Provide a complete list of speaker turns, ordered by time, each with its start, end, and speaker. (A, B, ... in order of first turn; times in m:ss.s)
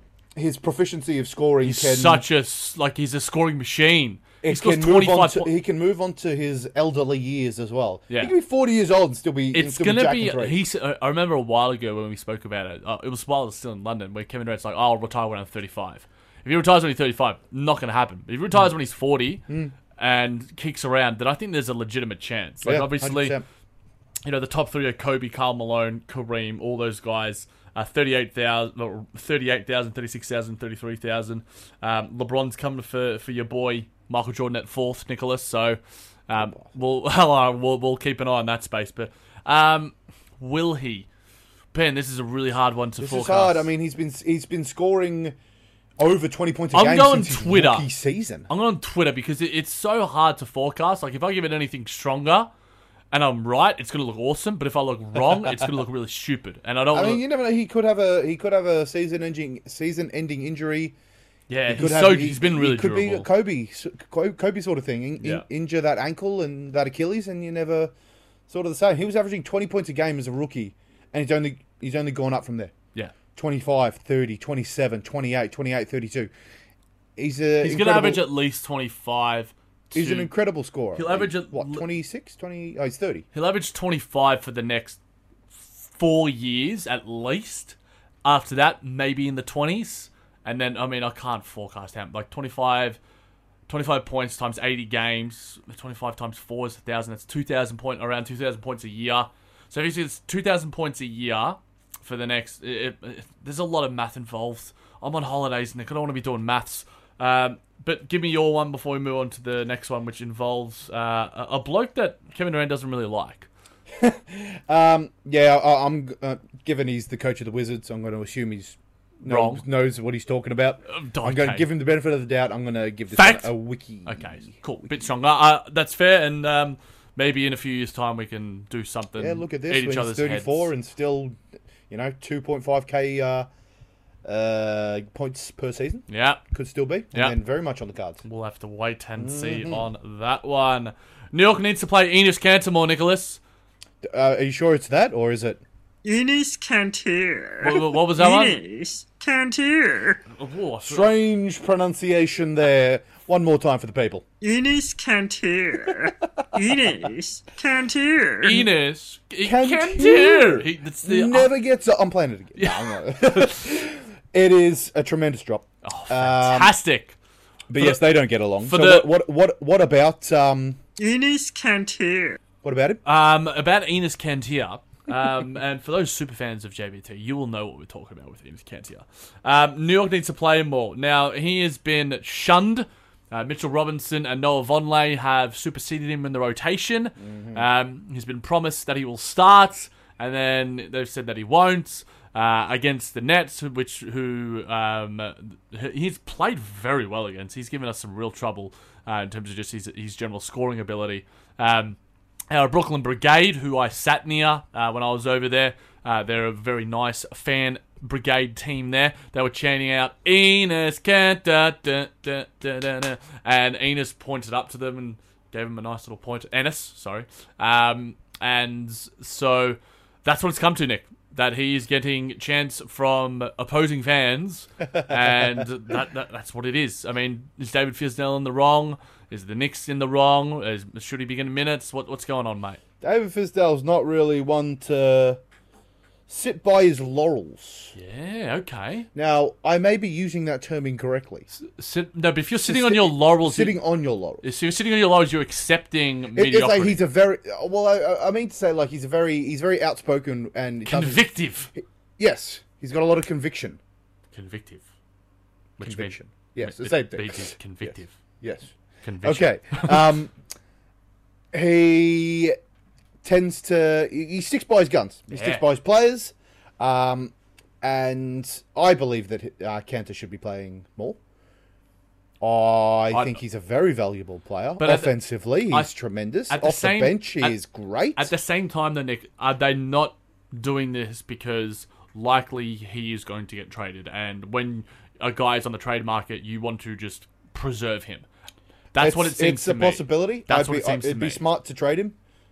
0:00.3-0:02.2 A
0:01.6-0:05.5 B
0:04.4-0:10.6 A
0:08.1-0:08.3 B
0:09.5-0:23.4 B
0:19.5-0:19.7 A
0:22.6-0:23.4 A
0:24.2-0:41.1 B
0:41.7-0:43.7 B
0:43.0-0:45.4 A
0:46.0-0:48.5 A
0:46.7-0:47.9 B
0:48.5-0:52.5 B
0:53.1-0:57.2 B
0:56.9-1:00.9 A
1:01.5-1:03.3 B
1:01.7-1:07.9 A
1:05.2-1:05.4 B
1:08.5-1:12.7 A
1:13.4-1:16.3 A
1:17.2-1:18.3 A
1:17.6-1:20.3 B
1:19.9-1:23.2 A
1:20.9-1:21.8 B
1:23.3-1:25.0 B
1:25.6-1:33.0 B
1:33.7-1:53.5 B
1:54.0-2:04.6 A
1:59.2-1:59.6 B
2:00.9-2:01.7 B
2:03.1-2:03.5 B
2:04.0-2:10.7 B
2:09.2-2:11.4 A
2:11.9-2:13.5 A
2:14.2-2:18.2 A
2:16.1-2:16.4 B
2:18.2-2:23.4 B
2:19.2-2:19.8 A
2:24.0-2:25.6 A
2:26.0-2:30.2 C
2:27.6-2:28.6 B
2:30.3-2:31.1 B
2:30.8-2:34.2 A
2:34.4-2:38.7 C
2:38.4-2:41.5 B
2:39.4-2:46.8 A
2:42.6-2:43.6 B
2:45.8-2:47.2 B
2:47.7-2:50.8 A
2:48.6-2:49.1 B
2:51.0-2:52.4 C
2:52.6-2:53.0 A
2:53.0-3:22.0 B
3:07.2-3:07.6 A
3:22.5-3:52.8 B
3:53.0-3:55.4 A
3:56.3-3:57.9 A
3:57.9-3:59.1 B
3:59.1-4:01.5 A
4:01.5-4:03.8 B
4:02.6-4:04.4 A
4:04.4-4:07.0 B
4:06.3-4:13.8 A
4:10.8-4:11.7 B
4:14.3-4:14.8 B
4:15.8-4:18.2 B
4:15.8-4:20.3 A
4:19.0-4:20.1 B
4:21.5-4:22.6 A
4:23.2-4:31.2 A
4:25.3-4:25.6 B
4:32.4-4:38.3 A
4:33.1-4:33.4 B
4:34.8-4:35.9 B
4:36.5-4:37.6 B
4:38.2-4:48.2 B
4:48.9-4:51.4 B
4:49.0-4:52.2 A